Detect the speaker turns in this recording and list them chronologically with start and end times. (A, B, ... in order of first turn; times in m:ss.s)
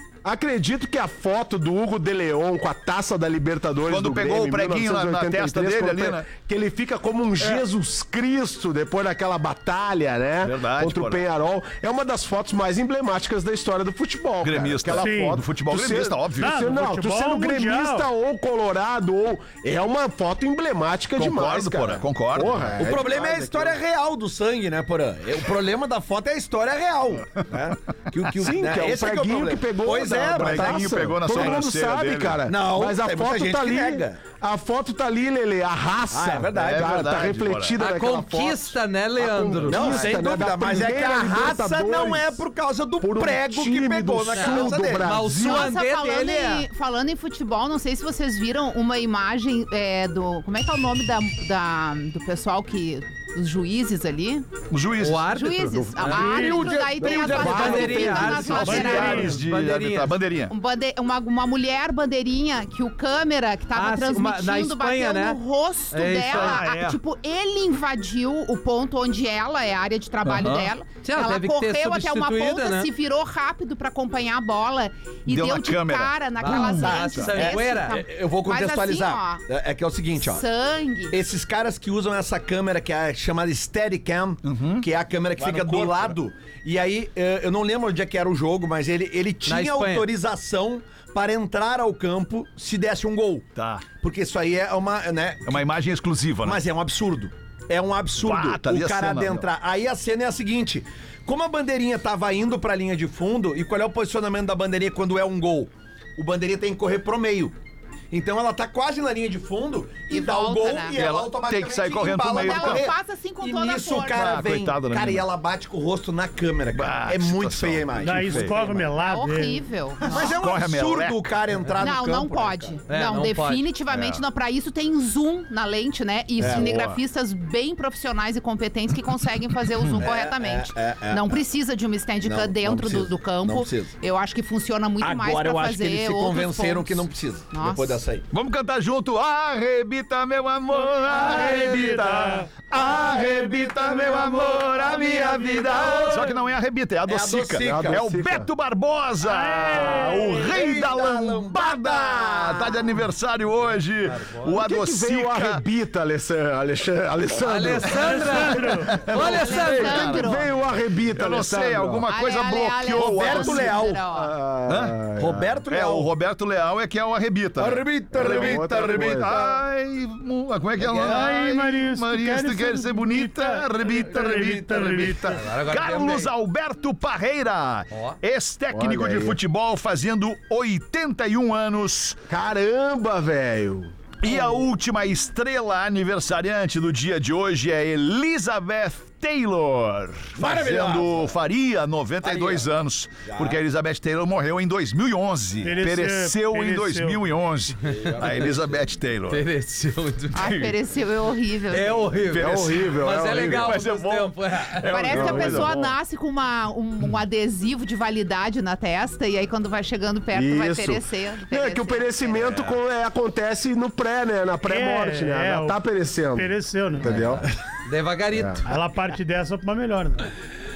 0:00.2-0:23.8 A
0:03.8-0:06.3 B
0:10.4-0:11.2 B
0:14.4-0:16.6 B
0:14.9-0:15.4 C
0:16.3-0:18.1 C
0:21.2-0:22.8 B
0:22.8-0:31.6 D
0:28.4-0:42.4 A
0:30.3-0:32.4 B
0:32.4-0:34.2 D
0:36.1-0:37.3 D
0:36.6-0:37.8 B
0:37.8-0:40.0 E
0:39.6-0:45.2 D
0:43.0-0:45.7 A
0:44.3-0:46.7 E
0:45.4-0:54.5 F
0:54.7-0:55.3 B
0:55.0-0:56.5 E
0:55.2-0:59.3 F
0:56.1-0:56.8 C
0:56.2-0:58.3 D
0:57.0-0:58.7 A
0:57.2-1:00.2 E
0:58.4-1:00.5 B
0:58.6-0:59.5 C
1:00.5-1:19.4 F
1:03.7-1:05.4 E
1:05.9-1:06.7 E
1:06.3-1:07.0 B
1:10.2-1:10.7 B
1:11.0-1:12.9 E
1:15.3-1:17.3 B
1:16.4-1:18.0 E
1:16.8-1:20.4 D
1:20.2-1:21.2 F
1:21.1-1:33.5 D
1:24.4-1:26.2 B
1:29.4-1:30.1 E
1:33.5-1:33.9 B
1:34.0-1:35.6 D
1:35.4-1:36.6 B
1:36.4-1:47.5 D
1:38.2-1:39.4 B
1:48.1-1:58.8 D
1:50.1-1:51.0 F
1:50.9-1:52.8 B
1:52.4-1:54.3 F
1:54.0-1:55.2 B
1:56.7-1:58.6 B
1:58.0-1:59.6 C
1:58.9-2:00.3 F
2:00.1-2:01.3 B
2:00.1-2:02.8 D
2:01.8-2:18.0 F
2:02.9-2:03.7 E
2:03.9-2:04.2 B
2:06.4-2:06.8 D
2:06.4-2:07.0 B
2:09.7-2:10.0 B
2:10.0-2:11.4 D
2:12.2-2:13.9 D
2:15.0-2:18.3 D
2:18.3-2:35.6 B
2:21.0-2:22.5 C
2:21.3-2:21.7 D
2:22.7-2:26.4 D
2:27.0-2:28.0 D
2:27.6-2:28.5 A
2:29.2-2:30.6 C
2:30.3-2:32.8 D
2:34.1-2:34.4 E
2:34.5-2:38.5 A
2:37.4-2:40.3 E
2:37.9-2:39.0 C
2:38.8-2:40.2 B
2:39.1-2:40.5 F
2:39.5-2:42.0 A
2:41.1-2:43.8 B
2:42.1-2:44.3 F
2:42.9-2:44.0 D
2:44.1-2:45.5 A
2:44.6-2:45.2 B
2:45.2-2:46.1 D
2:45.7-3:02.2 B
2:47.6-2:49.5 D
2:48.1-2:49.6 A
2:50.8-2:51.3 D
2:50.9-2:55.4 C
2:54.2-2:54.9 D
2:55.3-2:56.3 E
2:57.9-2:58.2 E
2:58.7-2:59.4 A
3:02.3-3:03.9 A
3:04.2-3:19.4 B
3:10.4-3:11.4 D
3:12.2-3:12.7 D
3:13.2-3:13.6 D
3:15.6-3:17.2 C
3:17.8-3:18.8 D
3:19.3-3:20.7 E
3:20.3-3:22.1 F
3:21.7-3:25.2 E
3:22.3-3:25.9 B
3:22.3-3:23.8 A
3:24.9-3:32.3 F
3:25.1-3:25.7 A
3:30.3-3:37.4 A
3:32.4-3:32.7 B
3:34.6-3:35.8 C
3:36.3-3:37.2 C
3:37.8-3:38.7 E
3:38.3-3:38.6 A
3:38.6-3:40.3 C